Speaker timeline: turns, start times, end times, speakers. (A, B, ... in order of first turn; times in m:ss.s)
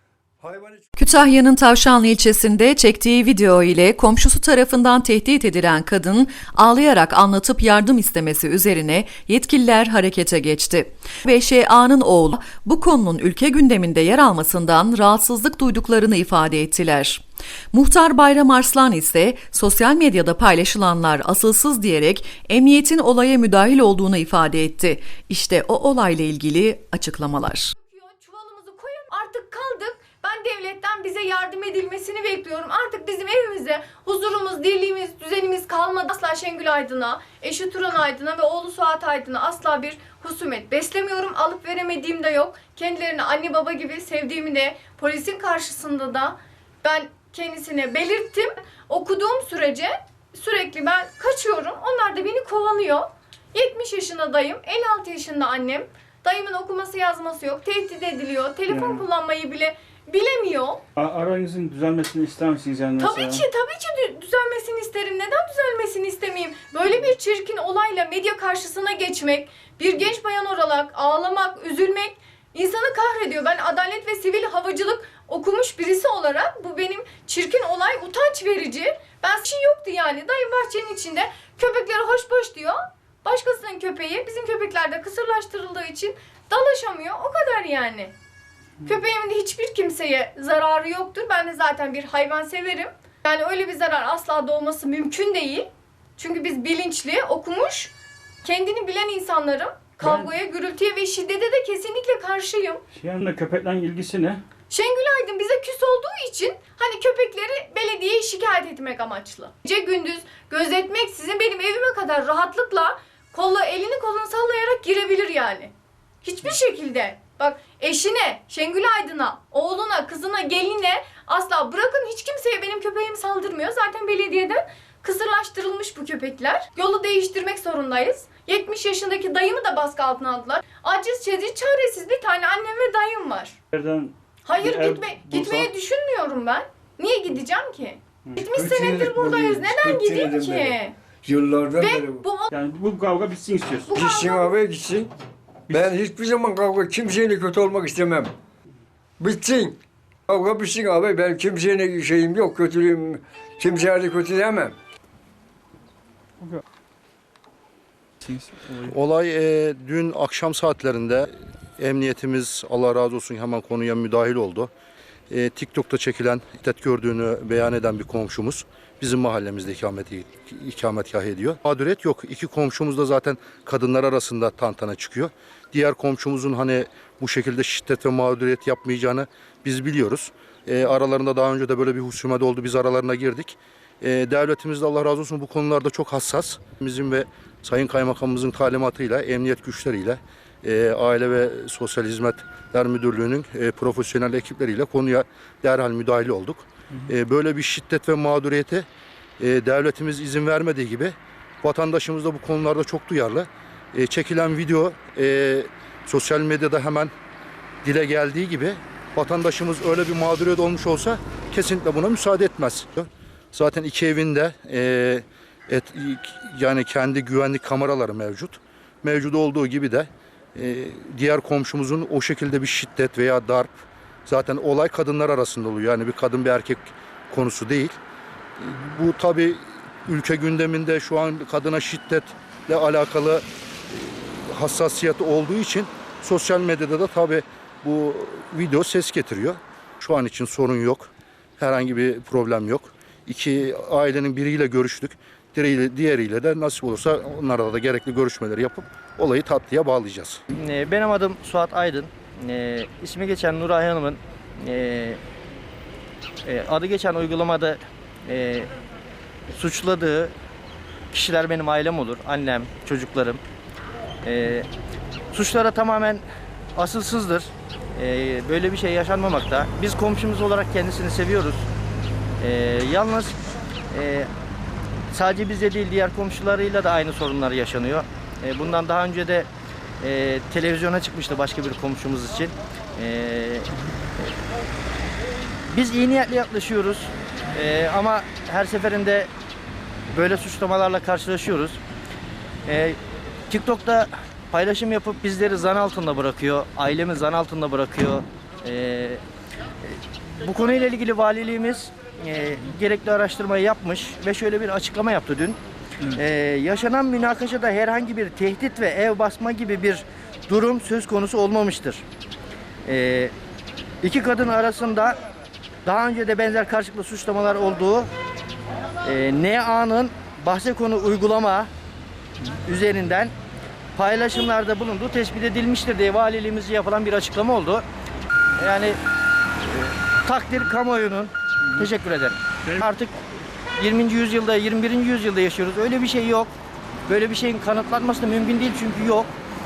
0:00.4-0:00.9 A
0:01.0-0:27.7 B
0:27.8-1:00.8 C
0:58.7-0:59.0 D
1:01.0-1:03.4 D
1:03.0-1:28.1 C
1:28.8-1:37.9 C
1:38.4-1:42.8 C
1:40.0-1:40.3 D
1:43.0-1:44.4 D
1:44.7-1:55.7 C
1:56.2-2:13.6 C
2:13.7-2:15.7 D
2:14.4-2:20.9 C
2:18.5-2:22.2 A
2:21.8-2:22.5 C
2:22.5-2:23.9 D
2:23.9-2:24.5 C
2:23.9-2:25.1 A
2:25.7-2:28.3 A
2:29.2-2:34.8 A
2:38.2-2:38.9 D
2:38.8-2:44.7 E
2:45.3-3:18.9 E
3:19.4-3:27.1 E
3:27.8-3:48.0 E
3:48.6-4:10.4 E
4:10.5-4:15.2 F
4:16.4-4:18.7 F
4:19.5-4:20.3 F
4:21.1-4:23.4 F
4:24.2-4:24.7 F
4:25.3-4:26.2 F
4:26.8-4:31.7 F
4:32.4-4:33.4 F
4:33.9-4:34.3 F
4:35.1-4:39.5 F
4:40.0-4:44.2 F
4:45.7-4:49.3 F
4:50.1-4:51.8 F
4:52.6-4:53.0 F
4:53.5-4:59.2 F
4:59.8-5:12.0 F
5:12.8-5:13.3 F
5:14.0-5:15.2 F
5:15.8-5:18.1 F
5:19.0-5:21.7 F
5:22.6-5:23.3 F
5:23.9-5:27.8 F
5:28.6-5:29.0 F
5:29.6-5:33.1 F
5:33.8-5:36.5 F
5:37.1-5:39.3 F